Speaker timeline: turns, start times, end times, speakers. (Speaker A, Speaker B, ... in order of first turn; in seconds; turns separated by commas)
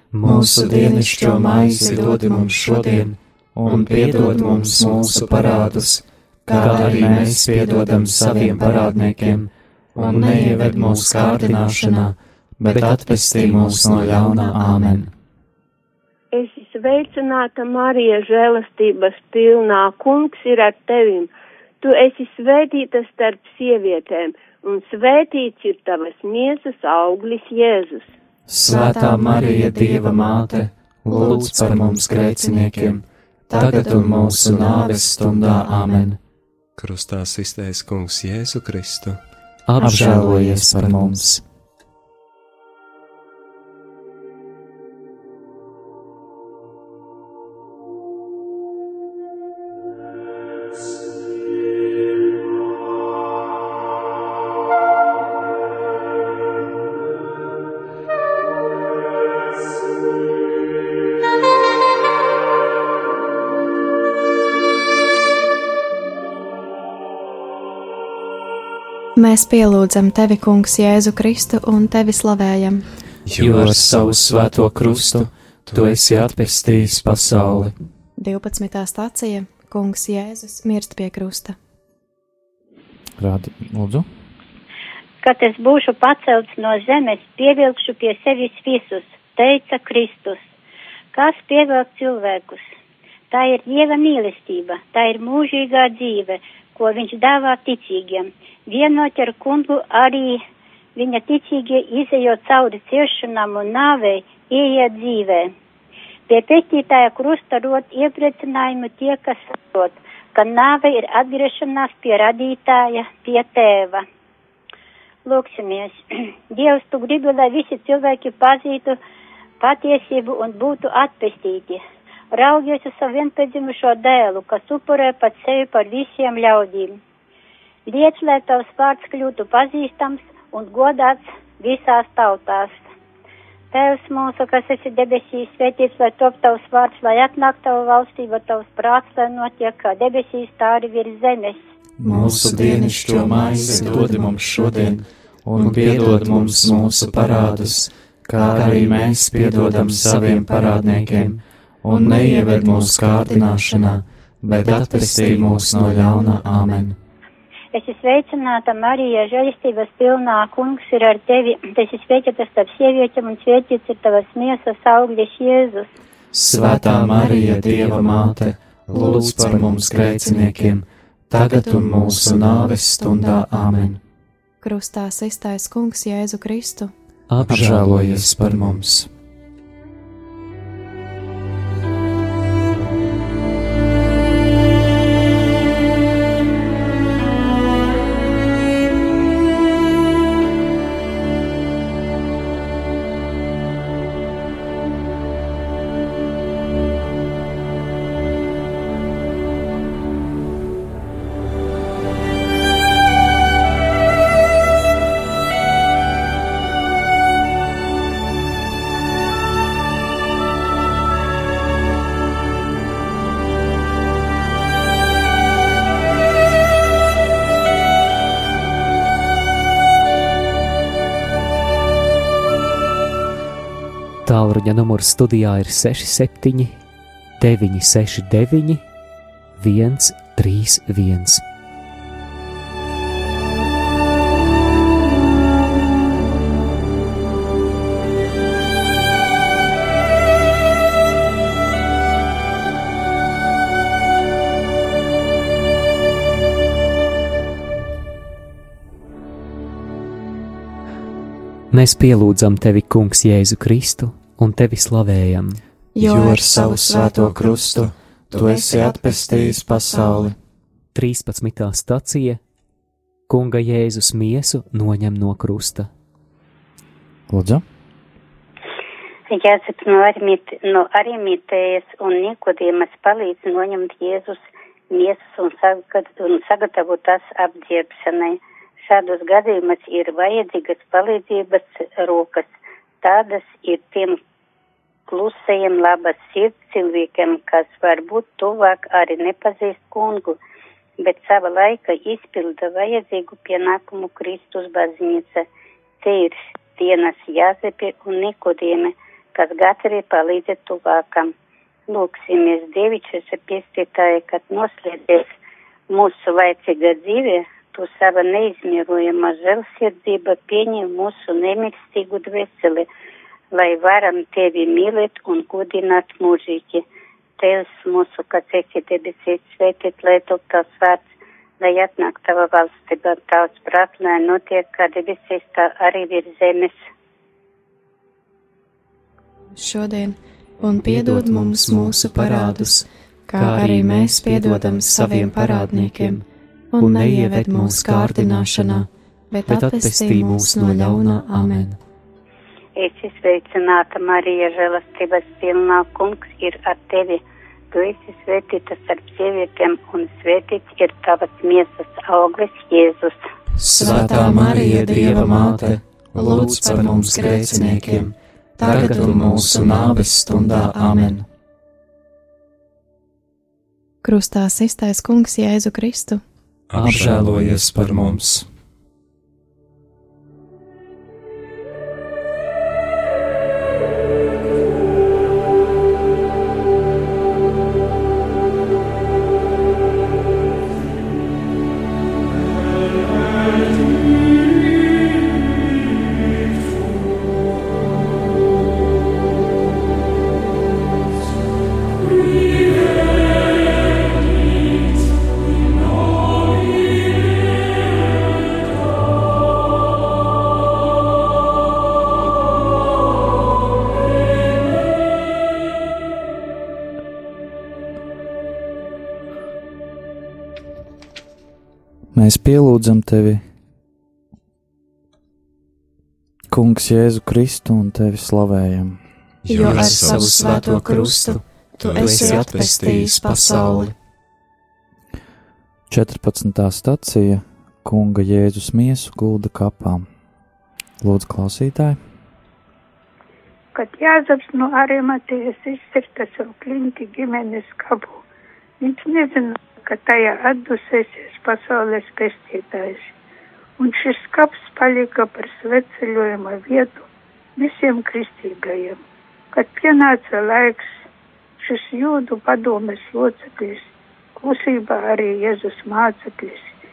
Speaker A: 0.2-15.1, Speaker B: 16.3-28.1, Speaker A: 28.5-36.2, Speaker C: 28.7-30.3, Speaker C: 33.5-34.1, Speaker D: 36.8-39.2, Speaker E: 39.7-41.2, Speaker A: 39.8-41.4, Speaker C: 69.2-72.8, Speaker D: 73.3-73.8, Speaker A: 73.4-77.7, Speaker C: 78.2-81.5, Speaker F: 83.2-84.1, Speaker G: 85.2-90.5, Speaker G: 91.1-92.6, Speaker G: 93.3-100.4, Speaker G: 100.9-105.5, Speaker G: 106.3-114.0, Speaker G: 115.2-119.0, Speaker G: 119.6-121.8, Speaker G: 122.3-127.0, Speaker G: 127.8-132.8, Speaker G: 133.7-141.6, Speaker A: 142.0-156.9, Speaker G: 157.7-165.9, Speaker A: 166.3-174.0, Speaker C: 174.6-176.9, Speaker E: 177.3-177.9, Speaker A: 177.4-179.1, Speaker E: 224.2-226.8, Speaker E: 227.4-228.8, Speaker E: 229.6-231.4, Speaker E: 251.7-255.6, Speaker C: 255.9-257.4, Speaker A: 256.0-260.3, Speaker C: 258.3-260.2, Speaker E: 260.9-262.4, Speaker E: 263.3-265.9, Speaker F: 267.3-267.6, Speaker G: 269.3-282.5, Speaker G: 283.0-284.2, Speaker G: 285.1-290.4, Speaker G: 291.0-295.4, Speaker G: 296.0-301.3, Speaker G: 301.9-305.3, Speaker G: 305.9-312.9, Speaker G: 313.5-316.8, Speaker G: 317.4-326.8, Speaker C: 329.6-341.8, Speaker A: 330.8-332.8, Speaker A: 333.4-336.2, Speaker A: 336.8-338.8, Speaker A: 339.4-341.7, Speaker G: 342.8-353.2, Speaker A: 353.6-361.2, Speaker C: 353.7-355.3, Speaker C: 356.2-357.6, Speaker C: 358.6-359.8, Speaker C: 364.0-366.2, Speaker D: 366.7-368.2, Speaker A: 366.8-368.4, Speaker F: 412.1-413.4, Speaker F: 416.5-419.0, Speaker C: 419.4-423.9, Speaker D: 419.5-420.3, Speaker A: 419.6-423.9, Speaker D: 421.8-422.8, Speaker F: 425.9-430.1, Speaker F: 431.0-432.0, Speaker H: 433.7-438.2, Speaker H: 438.8-443.1, Speaker H: 443.8-447.1, Speaker H: 447.6-449.0, Speaker H: 449.5-451.1, Speaker H: 451.6-456.7